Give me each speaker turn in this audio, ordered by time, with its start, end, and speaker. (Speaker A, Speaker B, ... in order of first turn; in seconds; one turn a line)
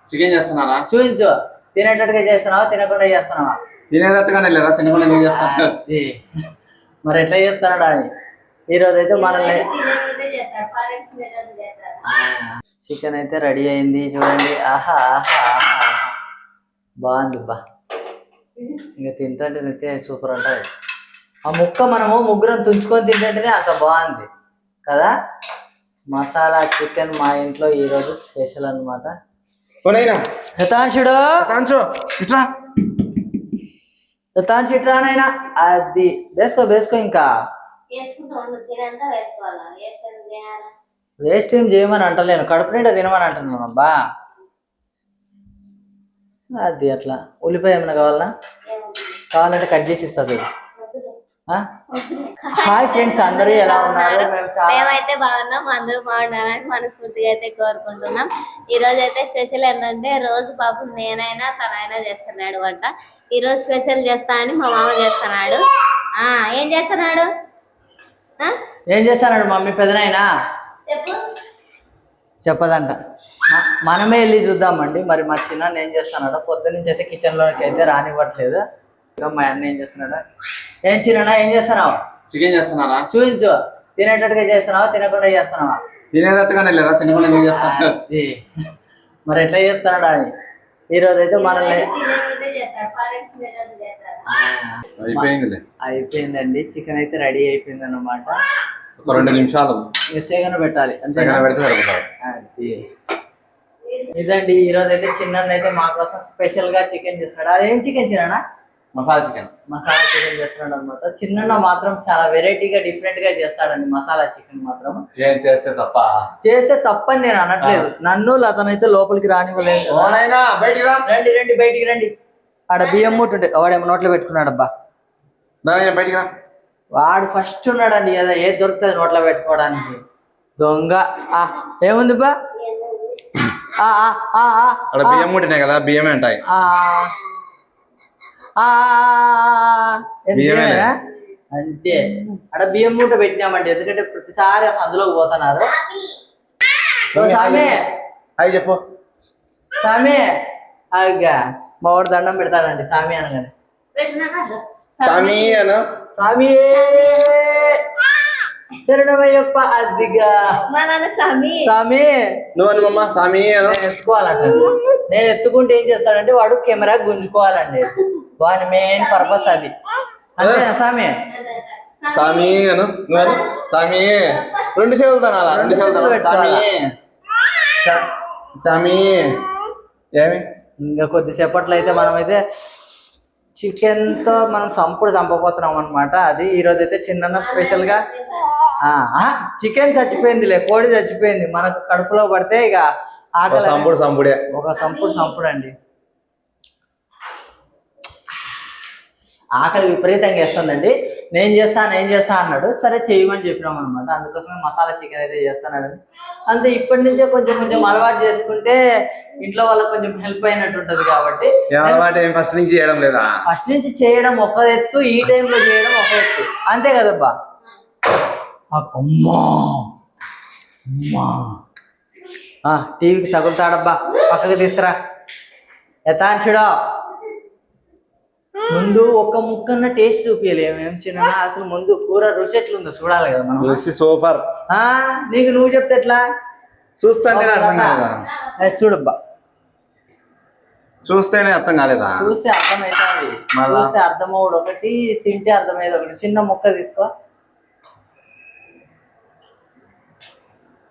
Speaker A: 0.1-0.8
Speaker B: 0.9-3.6
Speaker A: 3.9-5.7
Speaker B: 5.3-6.2
Speaker B: 7.1-8.1
Speaker B: 8.7-9.7
Speaker C: 9.1-12.0
Speaker B: 12.1-16.1
Speaker B: 17.0-17.6
Speaker B: 19.0-20.7
Speaker B: 21.5-24.3
Speaker B: 26.1-29.1
Speaker A: 29.8-30.2
Speaker B: 30.6-31.4
Speaker A: 31.4-32.5
Speaker B: 34.4-37.3
Speaker C: 37.9-40.7
Speaker B: 41.2-44.0
Speaker B: 46.6-48.3
Speaker C: 48.7-49.2
Speaker B: 49.3-50.4
Speaker C: 50.8-51.1
Speaker C: 52.0-65.6
Speaker B: 52.5-55.0
Speaker C: 66.2-67.3
Speaker B: 68.9-70.3
Speaker C: 70.9-71.2
Speaker B: 72.4-78.6
Speaker B: 79.2-80.2
Speaker B: 80.8-82.0
Speaker A: 82.3-83.1
Speaker B: 83.1-85.8
Speaker A: 86.1-88.0
Speaker B: 87.5-88.4
Speaker B: 89.3-90.3
Speaker B: 90.9-91.9
Speaker C: 91.3-94.2
Speaker B: 94.3-95.3
Speaker A: 95.0-95.6
Speaker B: 95.8-98.4
Speaker A: 99.0-99.9
Speaker B: 99.1-99.3
Speaker B: 100.1-101.5
Speaker A: 101.2-102.1
Speaker B: 102.2-102.9
Speaker B: 104.0-108.4
Speaker A: 108.9-109.5
Speaker B: 109.7-115.0
Speaker A: 115.2-116.3
Speaker B: 116.4-120.2
Speaker A: 117.6-117.9
Speaker A: 119.9-121.0
Speaker B: 121.1-122.1
Speaker B: 122.7-124.7
Speaker C: 122.8-123.2
Speaker A: 125.6-126.3
Speaker B: 127.0-130.0
Speaker B: 130.6-132.3
Speaker C: 132.6-133.2
Speaker B: 133.7-135.3
Speaker A: 134.9-136.4
Speaker B: 136.5-137.1
Speaker B: 138.6-141.0
Speaker A: 140.3-140.9
Speaker B: 141.5-145.7
Speaker C: 145.7-146.2
Speaker A: 147.1-147.8
Speaker B: 147.1-147.9
Speaker A: 148.4-148.8
Speaker B: 149.8-150.3
Speaker B: 150.9-153.5
Speaker C: 153.9-155.6
Speaker A: 155.0-155.9
Speaker B: 156.1-157.9
Speaker C: 156.7-157.4
Speaker B: 158.8-160.5
Speaker C: 160.7-161.7
Speaker B: 161.6-162.2
Speaker A: 162.6-163.8
Speaker B: 163.6-169.7
Speaker C: 169.0-169.7
Speaker B: 170.4-171.2
Speaker A: 170.4-170.7
Speaker C: 171.3-173.6
Speaker A: 172.1-176.8
Speaker B: 175.5-176.7
Speaker A: 178.6-179.4
Speaker A: 180.2-180.4
Speaker B: 180.8-182.4
Speaker B: 183.6-188.0
Speaker C: 187.4-188.5
Speaker B: 188.8-193.9
Speaker A: 193.5-194.4
Speaker B: 194.5-195.7
Speaker C: 194.8-195.3
Speaker B: 199.6-208.8
Speaker B: 209.4-212.1
Speaker A: 211.7-213.3
Speaker B: 213.5-217.3
Speaker B: 218.7-219.9
Speaker B: 220.9-221.6
Speaker B: 222.6-224.9
Speaker B: 226.1-226.8
Speaker B: 228.7-233.8
Speaker A: 233.6-234.5
Speaker B: 234.7-236.2
Speaker A: 237.0-238.3
Speaker B: 237.3-238.0
Speaker B: 238.6-239.2
Speaker A: 241.0-242.3
Speaker B: 242.2-247.1
Speaker A: 243.5-243.9